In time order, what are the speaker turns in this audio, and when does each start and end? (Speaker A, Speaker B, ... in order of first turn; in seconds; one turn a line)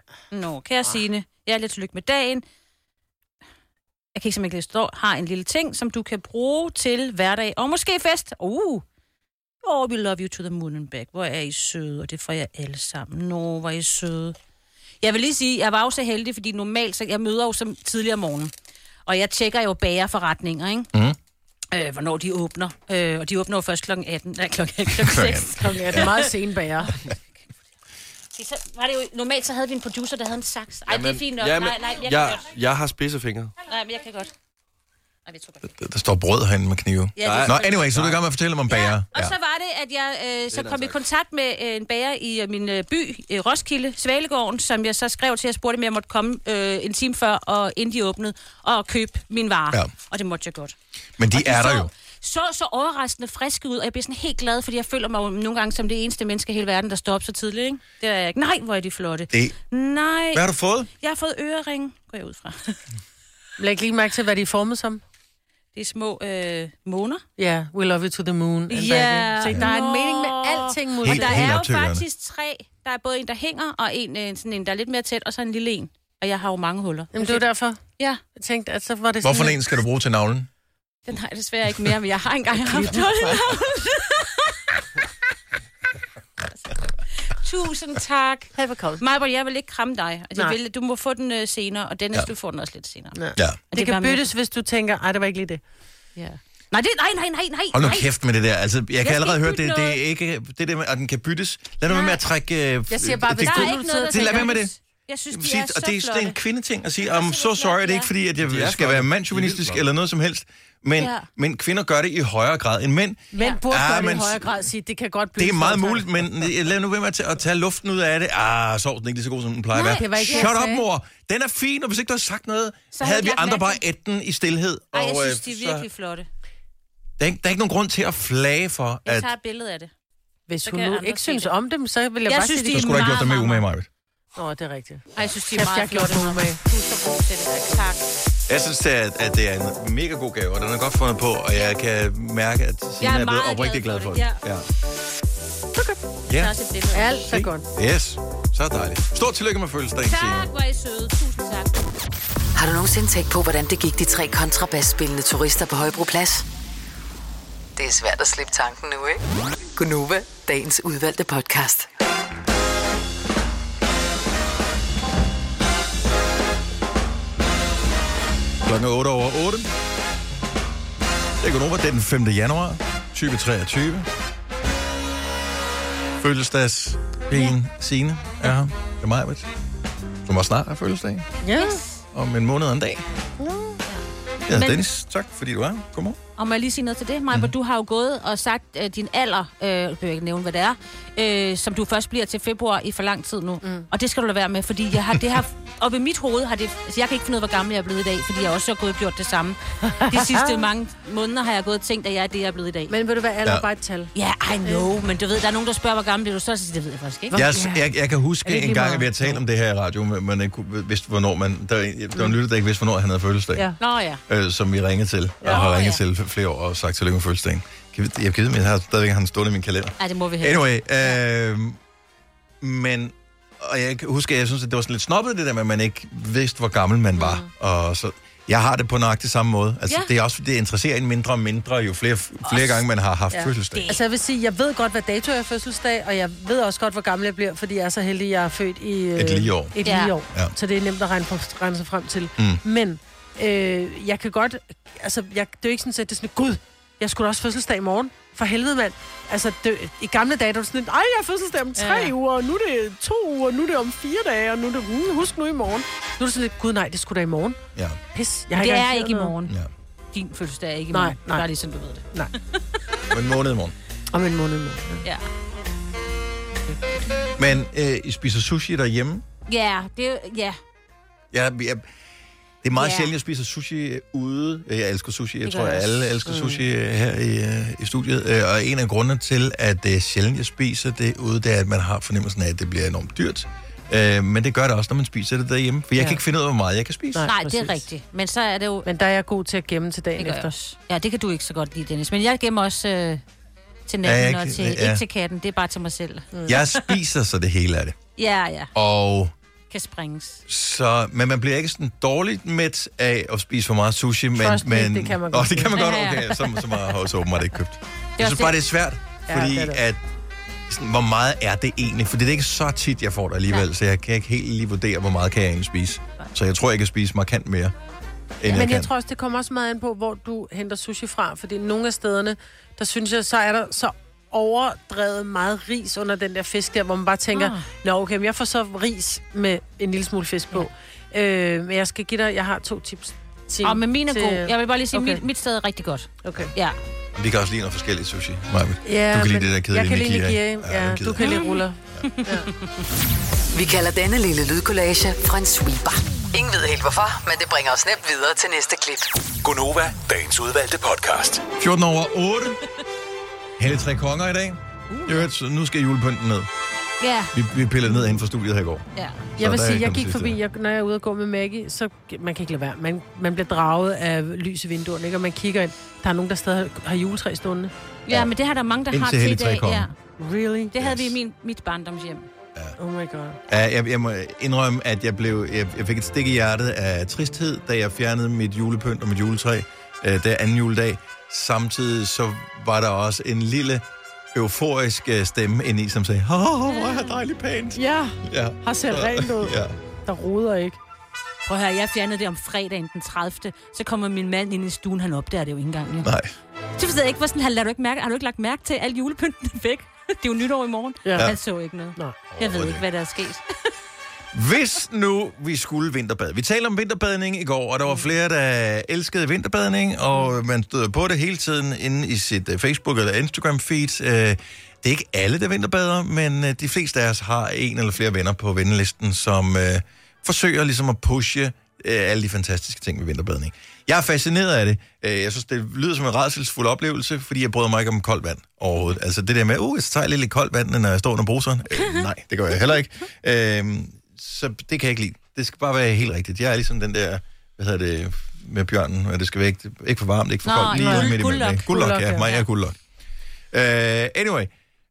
Speaker A: 0.3-2.4
Speaker A: 4.2-8.8
Speaker A: 9.6-14.3
Speaker A: 15.0-18.5
Speaker A: 19.1-20.9
Speaker A: 21.7-26.3
Speaker B: 24.9-26.1
Speaker C: 25.6-26.9
Speaker A: 28.4-32.5
Speaker D: 30.9-33.5
Speaker A: 33.6-34.3
Speaker A: 35.3-35.7
Speaker B: 35.7-39.3
Speaker A: 37.2-38.0
Speaker D: 37.2-38.2
Speaker A: 38.7-50.7
Speaker D: 40.5-41.0
Speaker B: 51.2-51.9
Speaker A: 51.3-60.4
Speaker B: 60.3-60.9
Speaker A: 61.0-62.8
Speaker C: 63.6-65.0
Speaker A: 65.7-67.2
Speaker C: 67.4-71.4
Speaker A: 68.7-77.5
Speaker B: 71.0-72.0
Speaker C: 77.1-77.8
Speaker C: 78.3-79.6
Speaker B: 79.2-80.5
Speaker A: 81.1-84.6
Speaker C: 82.7-83.4
Speaker A: 87.2-93.2
Speaker C: 88.5-89.0
Speaker C: 93.1-95.6
Speaker A: 93.7-94.3
Speaker A: 96.7-98.1
Speaker B: 97.7-104.7
Speaker A: 99.0-100.0
Speaker A: 101.9-102.2
Speaker C: 102.9-104.5
Speaker A: 103.4-106.4
Speaker B: 105.3-114.4
Speaker A: 107.0-108.1
Speaker D: 108.4-109.8
Speaker A: 111.0-111.3
Speaker C: 113.3-116.5
Speaker B: 115.4-125.8
Speaker A: 119.7-120.5
Speaker C: 119.7-120.8
Speaker A: 122.9-123.8
Speaker A: 124.9-126.3
Speaker B: 127.2-129.3
Speaker A: 129.0-129.9
Speaker C: 130.5-133.0
Speaker A: 130.6-131.5
Speaker A: 132.2-133.6
Speaker B: 132.7-133.9
Speaker C: 134.3-136.6
Speaker A: 135.2-138.0
Speaker B: 138.5-144.7
Speaker A: 143.0-144.4
Speaker C: 145.7-146.0
Speaker B: 146.3-146.5
Speaker A: 146.3-147.3
Speaker C: 146.9-147.7
Speaker B: 147.3-150.5
Speaker A: 150.0-151.9
Speaker E: 152.6-156.4
Speaker E: 157.8-159.2
Speaker E: 159.8-161.9
Speaker B: 168.6-169.7
Speaker B: 171.4-174.1
Speaker B: 176.2-179.5
Speaker B: 180.2-181.3
Speaker C: 181.4-181.8
Speaker A: 181.6-182.0
Speaker B: 182.1-183.0
Speaker C: 183.4-183.8
Speaker A: 183.8-184.8
Speaker B: 184.5-186.2
Speaker A: 186.4-202.9
Speaker C: 199.9-200.6
Speaker C: 202.9-204.1
Speaker A: 204.1-207.4
Speaker C: 207.3-207.8
Speaker B: 207.3-213.7
Speaker C: 208.4-209.4
Speaker A: 213.8-214.2
Speaker B: 214.3-221.8
Speaker A: 215.5-216.0
Speaker A: 220.0-221.2
Speaker B: 222.6-233.9
Speaker C: 227.2-227.4
Speaker A: 232.4-232.8
Speaker C: 233.3-257.6
Speaker A: 233.7-234.0
Speaker B: 239.2-239.8
Speaker A: 239.8-240.1
Speaker B: 242.4-242.6
Speaker A: 251.8-252.1
Speaker C: 258.1-259.3
Speaker A: 258.5-259.5
Speaker A: 260.1-262.0
Speaker C: 260.9-261.4
Speaker B: 263.1-263.7
Speaker C: 264.1-265.0
Speaker B: 267.4-269.2
Speaker A: 269.5-270.6
Speaker B: 271.3-271.8
Speaker B: 272.6-287.3
Speaker A: 272.8-273.1
Speaker A: 275.4-276.1
Speaker C: 276.2-276.6
Speaker C: 287.1-287.8
Speaker A: 287.2-288.9
Speaker C: 288.8-290.5
Speaker A: 290.2-293.2
Speaker A: 293.9-296.9
Speaker B: 294.0-295.0
Speaker B: 296.5-298.0
Speaker A: 298.2-298.7
Speaker B: 298.7-299.3
Speaker A: 299.7-300.4
Speaker B: 300.5-310.0
Speaker C: 304.4-305.8
Speaker A: 305.7-306.8
Speaker A: 308.2-308.6
Speaker C: 309.3-309.8
Speaker B: 310.7-317.7
Speaker B: 318.4-318.9
Speaker C: 318.5-335.2
Speaker A: 327.3-327.6
Speaker A: 333.6-336.8
Speaker C: 336.2-336.5
Speaker B: 337.1-341.3
Speaker C: 338.8-342.5
Speaker A: 341.2-342.5
Speaker E: 343.5-349.1
Speaker F: 349.4-351.5
Speaker B: 351.6-352.6
Speaker B: 353.6-356.5
Speaker A: 357.0-357.3
Speaker B: 357.3-358.8
Speaker B: 359.4-360.4
Speaker C: 359.4-367.7
Speaker A: 368.1-369.9
Speaker B: 368.9-369.9
Speaker C: 370.2-370.7
Speaker A: 370.7-372.3
Speaker B: 370.8-371.1
Speaker C: 372.8-373.4
Speaker B: 373.5-389.7
Speaker A: 386.8-387.2
Speaker C: 387.8-390.8
Speaker A: 391.4-396.1
Speaker B: 396.0-396.3
Speaker A: 396.8-403.4
Speaker C: 401.0-401.3
Speaker B: 402.3-402.8
Speaker B: 404.3-442.8
Speaker A: 440.4-441.7
Speaker C: 440.7-441.1
Speaker C: 441.7-442.3
Speaker B: 443.5-444.5